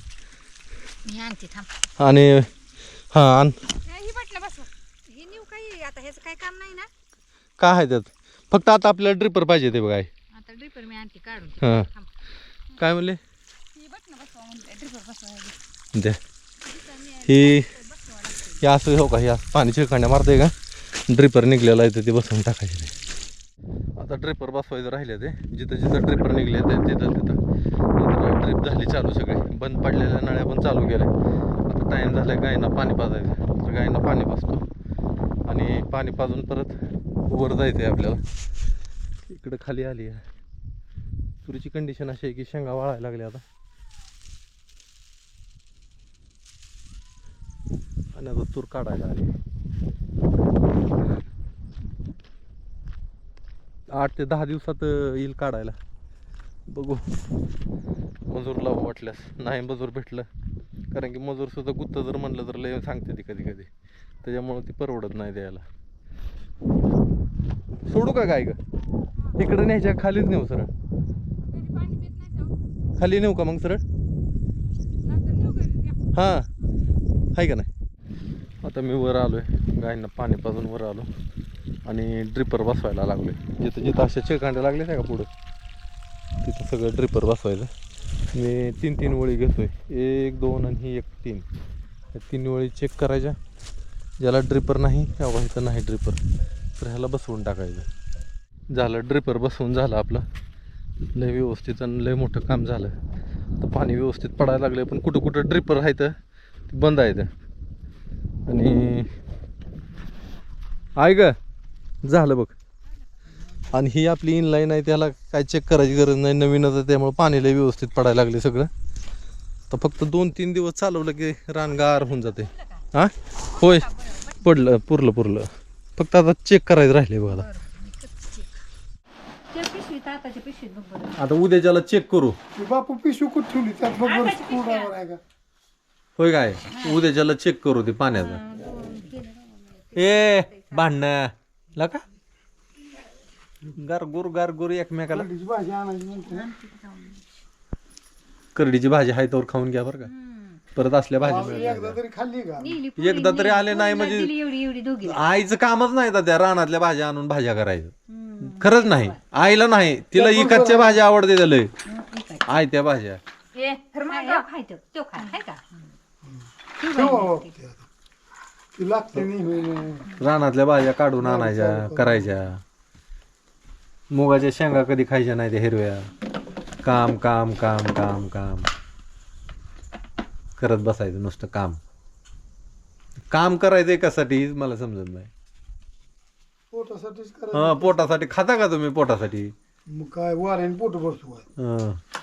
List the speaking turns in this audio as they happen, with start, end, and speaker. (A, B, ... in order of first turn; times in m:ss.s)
0:01.0-0:01.7 A
0:02.0-0:02.5 B
0:03.1-0:03.5 B
0:03.9-0:06.9 A
0:07.6-0:10.1 B
0:10.3-0:12.1 A
0:11.6-0:11.9 B
0:12.8-0:13.2 B
0:13.7-0:15.6 C
0:16.6-0:18.7 A
0:17.2-0:17.7 B
0:18.6-0:20.6 B
0:21.1-0:22.9 B
0:24.0-0:27.4 B
0:28.0-0:31.2 B
0:31.7-0:34.7 B
0:35.5-0:38.2 B
0:39.3-0:40.3 B
0:41.4-0:43.4 B
0:48.2-0:49.3 B
0:53.9-0:55.8 B
0:56.7-0:57.1 B
0:58.3-1:00.3 B
1:00.9-1:03.7 B
1:04.2-1:05.7 B
1:07.9-1:08.6 B
1:09.4-1:10.7 B
1:11.5-1:12.4 C
1:13.0-1:13.8 B
1:15.1-1:15.7 C
1:15.3-1:15.9 A
1:16.1-1:16.5 B
1:17.4-1:17.7 B
1:18.6-1:21.1 B
1:21.9-1:25.3 B
1:26.4-1:27.7 B
1:28.3-1:31.4 B
1:32.1-1:33.4 B
1:34.2-1:36.2 B
1:36.8-1:37.9 B
1:38.7-1:40.3 B
1:41.2-1:43.0 B
1:43.6-1:46.2 B
1:46.7-1:47.3 B
1:48.5-1:49.1 B
1:51.0-1:51.4 B
1:52.0-1:52.5 B
1:53.1-1:53.7 A
1:53.7-1:58.7 B
1:59.7-2:03.9 B
2:01.9-2:02.8 A
2:03.5-2:04.4 A
2:04.4-2:07.5 B
2:07.3-2:08.6 A
2:09.5-2:11.2 A
2:11.2-2:12.4 B
2:12.6-2:15.2 D
2:14.0-2:14.9 A
2:16.2-2:18.4 B
2:16.7-2:17.0 A
2:18.1-2:20.9 A
2:20.0-2:22.0 B
2:23.8-2:25.3 B
2:25.1-2:26.5 D
2:26.2-2:27.4 A
2:28.6-2:30.1 B
2:30.0-2:30.6 A
2:30.8-2:32.0 B
2:31.2-2:32.8 D
2:31.3-2:31.8 A
2:32.6-2:35.2 A
2:33.0-2:34.4 B
2:35.0-2:41.7 B
2:38.1-2:39.2 A
2:40.2-2:41.0 D
2:41.8-2:42.5 A
2:42.5-2:43.2 B
2:43.6-2:44.5 C
2:43.8-2:45.8 A
2:46.3-2:47.9 D
2:46.8-2:47.5 A
2:48.7-2:50.1 D
2:50.2-2:52.6 B
2:51.2-2:52.3 D
2:54.1-2:56.1 B
2:56.8-2:58.7 B
3:00.6-3:01.8 B
3:03.3-3:05.3 B
3:06.7-3:08.1 D
3:07.5-3:09.5 B
3:09.9-3:11.5 D
3:11.6-3:12.0 B